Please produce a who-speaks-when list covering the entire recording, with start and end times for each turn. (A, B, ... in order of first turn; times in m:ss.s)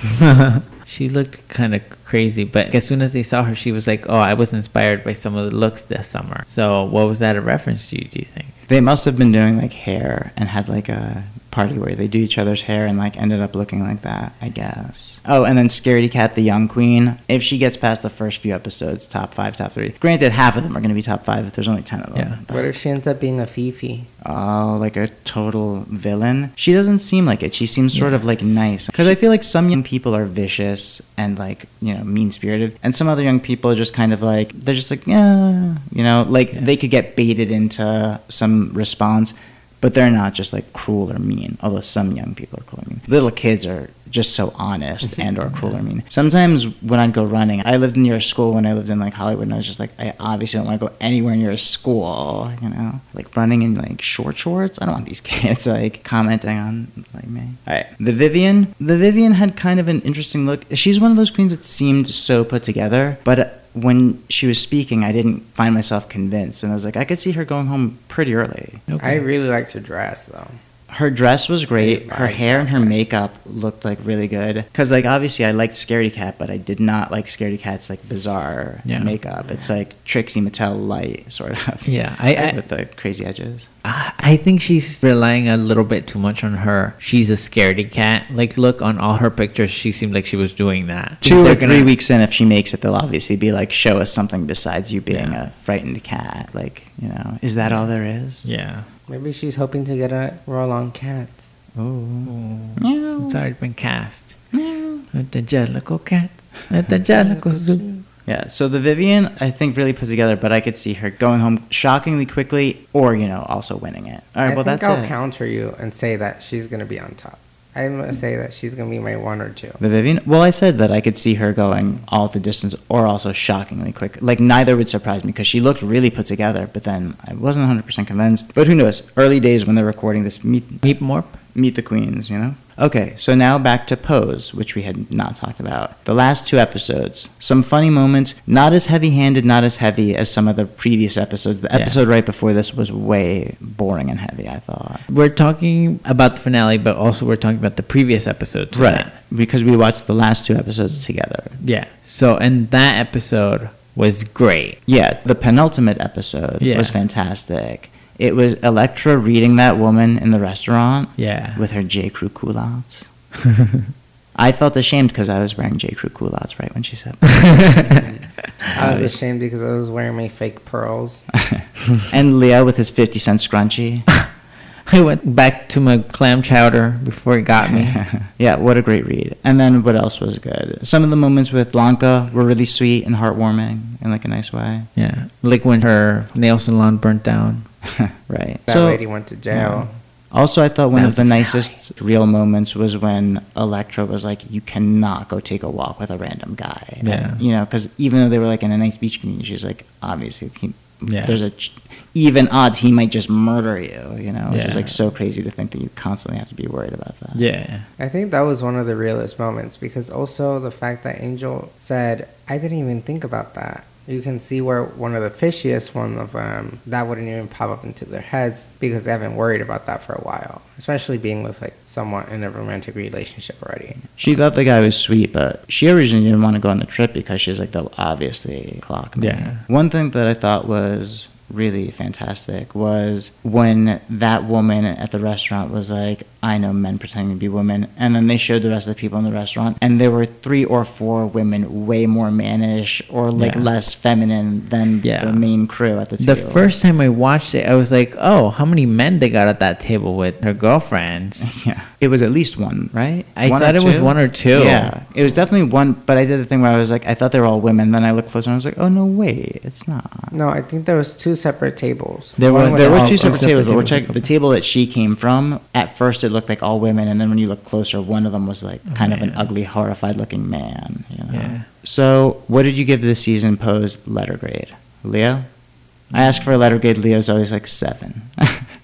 0:00.2-0:08.6 A
0:08.7-0:22.7 B
0:22.5-0:24.1 C
0:24.2-1:08.8 B
0:27.9-0:28.2 A
1:08.9-1:09.2 A
1:09.0-1:10.6 C
1:10.9-1:23.7 B
1:11.8-1:12.9 C
1:18.8-1:19.1 A
1:21.8-1:22.6 A
1:23.8-1:31.9 A
1:31.2-1:38.5 B
1:35.1-1:35.4 A
1:38.4-1:38.9 A
1:39.1-1:41.4 C
1:41.8-1:43.4 B
1:42.2-1:44.4 A
1:44.5-1:45.0 B
1:45.1-1:47.8 A
1:47.1-1:48.0 C
1:48.2-1:55.1 B
1:54.4-1:59.8 C
1:59.8-2:10.9 B
2:10.8-2:11.4 A
2:11.5-2:25.0 B
2:25.1-2:29.1 A
2:28.7-2:31.6 B
2:31.6-2:34.8 A
2:34.9-2:43.1 B
2:36.6-2:37.0 A
2:41.2-2:41.6 A
2:43.4-2:43.8 A
2:44.3-2:48.0 B
2:47.2-2:48.0 A
2:47.9-2:48.2 C
2:48.7-2:49.2 B
2:48.7-2:51.3 C
2:51.4-2:54.1 B
2:54.9-2:58.0 A
2:57.6-3:04.9 B
3:05.0-3:07.7 A
3:07.8-3:27.4 B
3:08.7-3:09.9 C
3:10.9-3:11.7 A
3:17.0-3:17.4 A
3:21.1-3:21.4 A
3:24.5-3:24.9 A
3:27.3-3:27.9 A
3:28.0-3:44.2 C
3:44.2-4:06.7 B
3:49.2-3:49.6 A
4:03.3-4:03.7 A
4:05.0-4:05.4 A
4:06.2-4:11.5 A
4:11.4-4:20.3 B
4:13.4-4:14.9 A
4:20.3-4:23.7 C
4:22.4-4:24.2 A
4:22.7-4:35.4 B
4:28.9-4:29.5 A
4:31.3-4:31.7 A
4:36.1-4:38.7 B